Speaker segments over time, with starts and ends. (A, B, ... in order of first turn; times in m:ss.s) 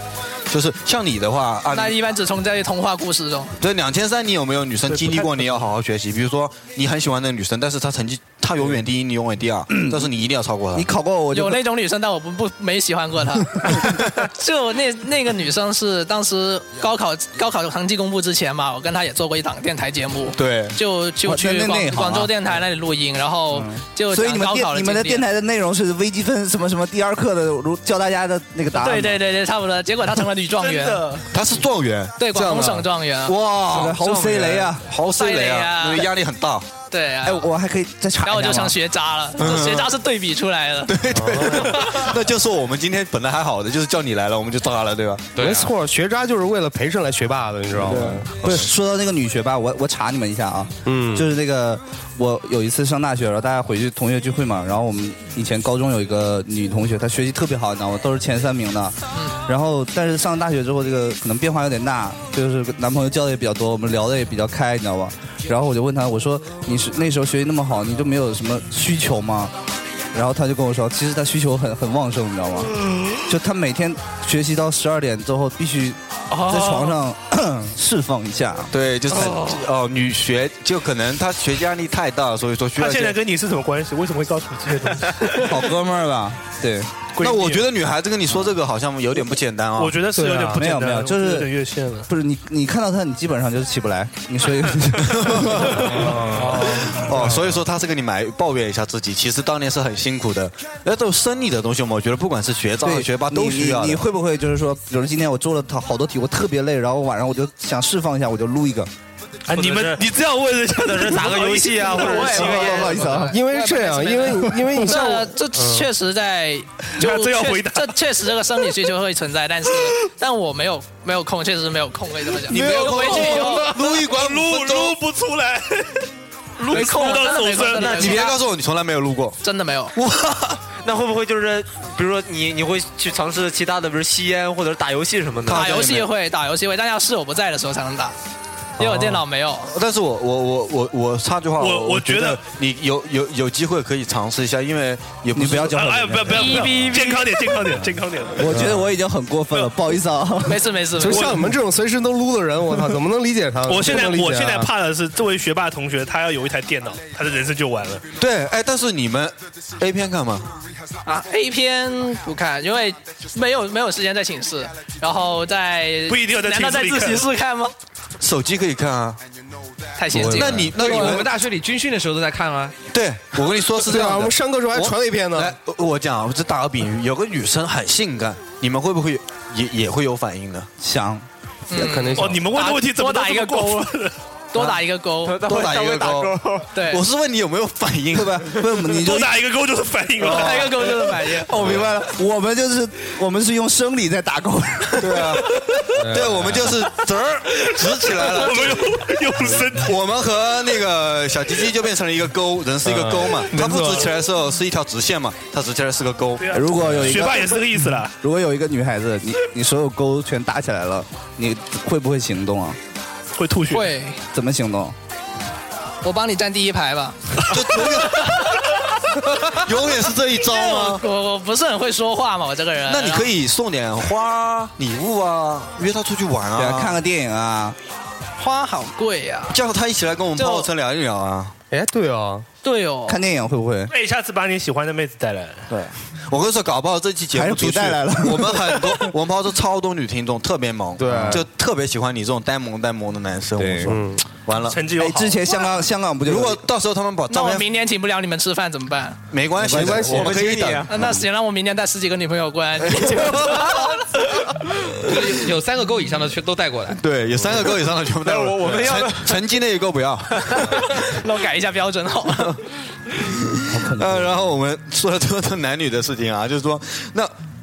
0:00.5-0:02.0 A
0:01.7-0:03.5 B
0:03.6-0:10.9 A
0:09.7-0:10.1 C
0:10.7-0:11.6 C
0:11.3-0:25.2 B
0:20.4-0:20.8 A
0:21.2-0:22.3 C
0:23.5-0:29.2 C
0:28.8-0:31.2 B
0:30.6-0:31.2 D
0:31.3-0:36.7 A
0:32.2-0:33.4 B
0:33.7-0:34.9 C
0:35.1-0:36.1 B
0:36.9-0:37.5 B
0:37.2-0:38.8 C
0:38.2-0:40.9 B
0:39.4-0:39.9 A
0:40.9-0:45.6 A
0:41.1-0:41.6 E
0:45.4-0:48.7 E
0:47.8-0:48.2 A
0:48.4-1:09.5 C
0:50.9-0:51.3 E
1:10.1-1:18.7 C
1:16.4-1:16.9 D
1:18.7-1:23.2 A
1:22.8-1:25.6 D
1:25.4-1:27.0 C
1:27.2-1:27.7 D
1:27.2-1:30.1 A
1:29.8-1:32.1 D
1:30.2-1:30.6 E
1:30.3-1:31.5 C
1:32.1-1:36.3 C
1:35.1-1:44.0 A
1:35.9-1:36.5 E
1:36.3-1:36.8 D
1:37.1-1:37.6 E
1:42.8-1:48.9 C
1:49.5-1:53.0 D
1:49.5-1:50.1 F
1:50.6-1:53.0 F
1:51.9-2:03.7 B
1:52.4-1:53.4 C
1:53.3-1:55.9 E
1:57.0-1:58.0 D
2:02.5-2:05.0 A
2:02.6-2:06.1 D
2:06.6-2:08.4 B
2:06.7-2:08.2 D
2:07.8-2:08.1 F
2:07.9-2:09.4 A
2:09.4-2:10.0 B
2:10.0-2:10.6 A
2:10.8-2:15.9 F
2:15.4-2:16.1 A
2:15.5-2:18.1 B
2:18.8-2:19.7 B
2:18.8-2:26.0 A
2:21.6-2:22.4 D
2:25.3-2:26.9 C
2:25.8-2:28.5 D
2:26.3-2:27.2 B
2:28.4-2:30.6 C
2:28.5-2:28.9 E
2:30.5-2:31.4 B
2:31.0-2:34.7 E
2:31.1-2:31.4 D
2:33.7-2:38.1 D
2:38.2-2:40.5 A
2:41.0-2:47.7 B
2:46.1-2:47.3 D
2:48.2-2:49.2 A
2:50.0-2:51.2 B
2:50.1-2:50.7 E
2:50.2-2:51.3 A
2:50.8-2:52.8 G
2:52.9-3:00.7 A
2:53.8-2:55.6 E
3:00.8-3:01.3 C
3:01.7-3:03.9 B
3:01.7-3:02.4 E
3:02.2-3:04.1 D
3:04.5-3:05.4 B
3:04.6-3:04.8 A
3:05.2-3:06.7 F
3:05.4-3:08.7 A
3:06.7-3:07.0 B
3:08.1-3:09.4 C
3:09.0-3:10.8 D
3:10.2-3:11.5 B
3:10.2-3:10.7 A
3:11.5-3:11.9 A
3:11.5-3:15.2 C
3:15.0-3:19.0 A
3:16.0-3:16.7 E
3:18.1-3:20.0 D
3:19.7-3:26.5 A
3:22.8-3:24.1 E
3:26.4-3:28.1 D
3:26.5-3:27.7 C
3:26.8-3:27.3 E
3:28.2-3:32.8 C
3:33.4-3:33.9 D
3:33.7-3:34.2 B
3:34.3-3:35.0 C
3:36.0-3:38.3 B
3:37.5-3:38.5 A
3:39.4-3:41.0 A
3:40.4-3:43.3 B
3:42.9-3:47.0 A
3:46.6-3:47.8 C
3:48.4-3:49.6 B
3:49.5-3:51.6 A
3:50.4-3:50.7 B
3:51.7-3:52.4 E
3:52.6-3:53.2 B
3:53.1-3:53.9 C
3:53.9-3:55.7 D
3:55.7-4:04.9 A
3:57.3-3:59.1 C
4:01.0-4:01.5 E
4:01.1-4:01.4 C
4:03.6-4:03.9 C
4:03.9-4:04.2 E
4:04.6-4:05.4 D
4:05.0-4:06.7 C
4:06.2-4:07.7 A
4:07.3-4:09.2 B
4:09.3-4:10.9 A
4:09.6-4:10.6 C
4:09.7-4:10.5 E
4:10.2-4:10.9 F
4:10.9-4:13.9 B
4:13.0-4:13.6 A
4:15.1-4:17.0 G
4:17.0-4:20.6 A
4:18.2-4:19.4 F
4:21.0-4:22.6 B
4:23.7-4:24.4 C
4:23.7-4:27.3 A